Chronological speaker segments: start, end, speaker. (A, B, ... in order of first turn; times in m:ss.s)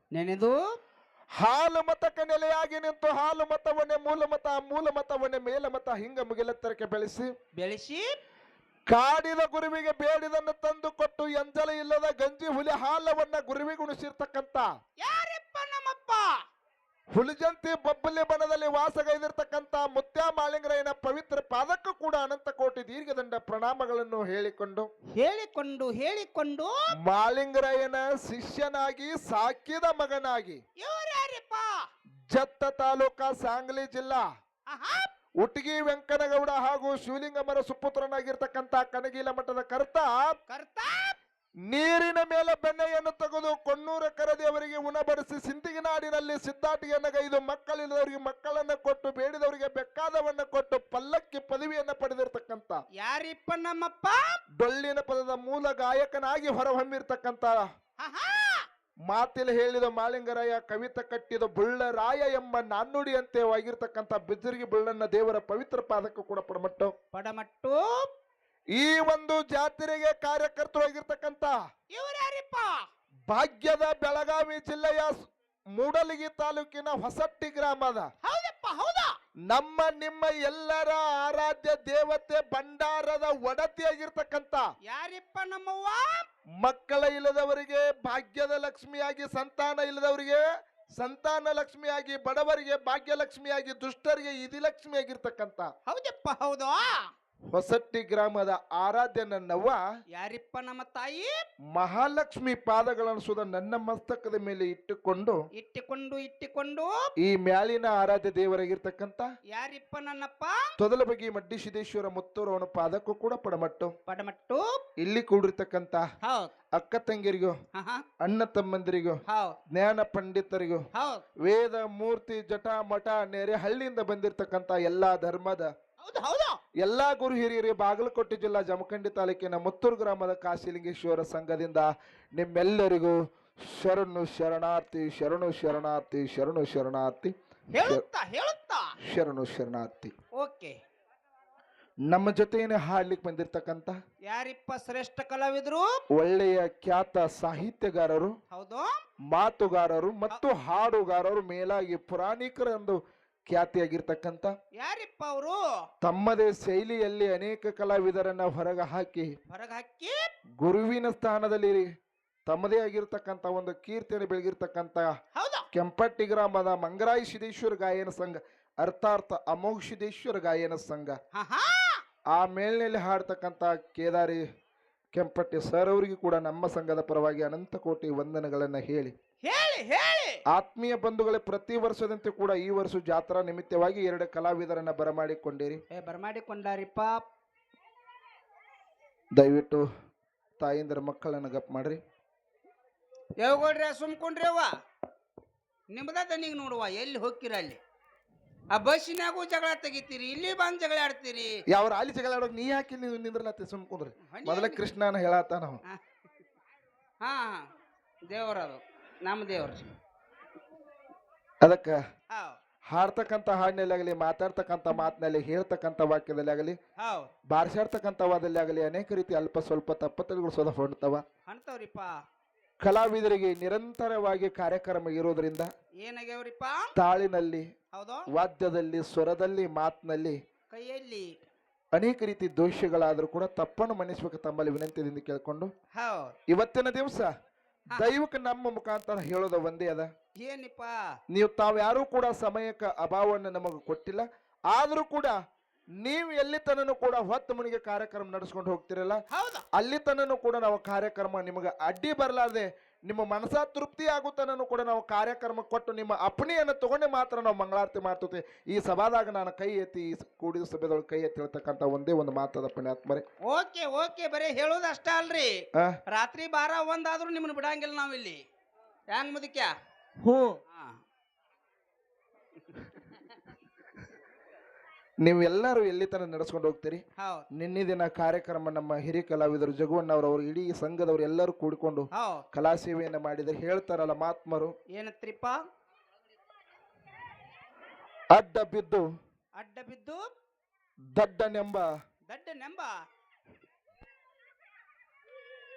0:00.1-0:00.8 A
0:01.4-0:07.3 B
0:07.6-0:08.2 A
0:08.9-0:14.7 B
0:15.0-0:16.4 A
0:17.1-0:24.9 B
0:25.2-0:26.7 A
0:27.1-0:30.6 B
0:30.8-0:31.9 A
0:32.3-0:34.2 B
0:34.7-0:35.1 A
0:35.4-0:40.2 B
0:40.5-0:41.2 A
0:41.7-0:52.8 B
0:53.0-0:54.4 A
0:54.6-0:57.6 B
0:58.0-0:58.7 A
0:59.1-1:06.9 B
1:07.1-1:08.1 A
1:08.8-1:11.5 B
1:11.9-1:12.8 A
1:13.3-1:15.2 B
1:15.8-1:18.1 B
1:18.2-1:19.2 A
1:19.5-1:24.6 B
1:24.8-1:26.3 A
1:26.6-1:30.4 B
1:31.0-1:35.7 B
1:35.9-1:37.1 A
1:37.5-1:39.8 B
1:40.1-1:41.4 A
1:41.8-1:45.4 B
1:45.6-1:46.9 A
1:47.2-1:49.2 B
1:49.5-1:50.7 A
1:50.8-1:53.9 B
1:54.1-1:54.7 A
1:55.0-1:56.0 B
1:56.2-1:56.5 A
1:56.8-1:57.6 B
1:57.7-1:58.0 A
1:58.2-1:59.2 B
1:59.3-1:59.6 A
1:59.7-2:00.8 B
2:00.9-2:01.2 A
2:01.4-2:05.7 B
2:06.0-2:06.6 A
2:06.8-2:18.0 B
2:17.7-2:19.0 A
2:19.1-2:20.1 B
2:20.4-2:20.8 A
2:22.1-2:24.0 B
2:24.3-2:25.9 A
2:26.1-2:28.3 B
2:28.5-2:29.0 A
2:29.3-2:33.0 B
2:33.5-2:34.5 B
2:34.8-2:35.6 A
2:36.0-2:39.3 B
2:39.5-2:40.3 A
2:40.6-2:41.9 B
2:42.5-2:45.1 B
2:45.4-2:45.7 A
2:45.7-2:51.2 B
2:51.3-2:52.0 A
2:52.4-2:54.4 B
2:55.1-2:59.1 B
2:59.4-3:00.4 A
3:00.5-3:05.8 B
3:05.9-3:07.2 A
3:09.4-3:09.8 B
3:10.6-3:12.0 B
3:13.4-3:14.7 A
3:15.9-3:17.8 A
3:18.7-3:21.6 A
3:21.7-3:25.8 B
3:24.3-3:24.8 A
3:27.2-3:27.7 A
3:28.3-3:29.9 A
3:31.6-3:32.0 B
3:32.3-3:32.6 A
3:32.9-3:36.8 B
3:37.0-3:37.3 A
3:37.5-3:41.2 B
3:41.5-3:42.1 A
3:42.8-3:45.7 B
3:46.0-3:46.9 A
3:47.0-3:47.6 B
3:47.9-3:48.3 A
3:48.3-3:50.4 B
3:50.7-3:51.3 A
3:52.0-3:55.7 B
3:55.9-3:56.4 A
3:56.5-3:57.3 B
3:57.9-4:00.1 B
4:00.4-4:00.9 A
4:01.3-4:05.4 B
4:06.0-4:09.2 B
4:09.3-4:09.7 A
4:09.7-4:23.2 B
4:23.4-4:28.4 A
4:29.1-4:29.7 A
4:30.2-4:30.6 B
4:30.7-4:31.0 A
4:35.2-4:37.0 B
4:37.2-4:37.5 A
4:37.5-4:44.7 B
4:42.1-4:42.4 A
4:45.0-4:45.6 A
4:48.3-4:49.0 B
4:49.6-4:50.3 A
4:51.2-4:51.8 B
4:52.3-4:52.9 A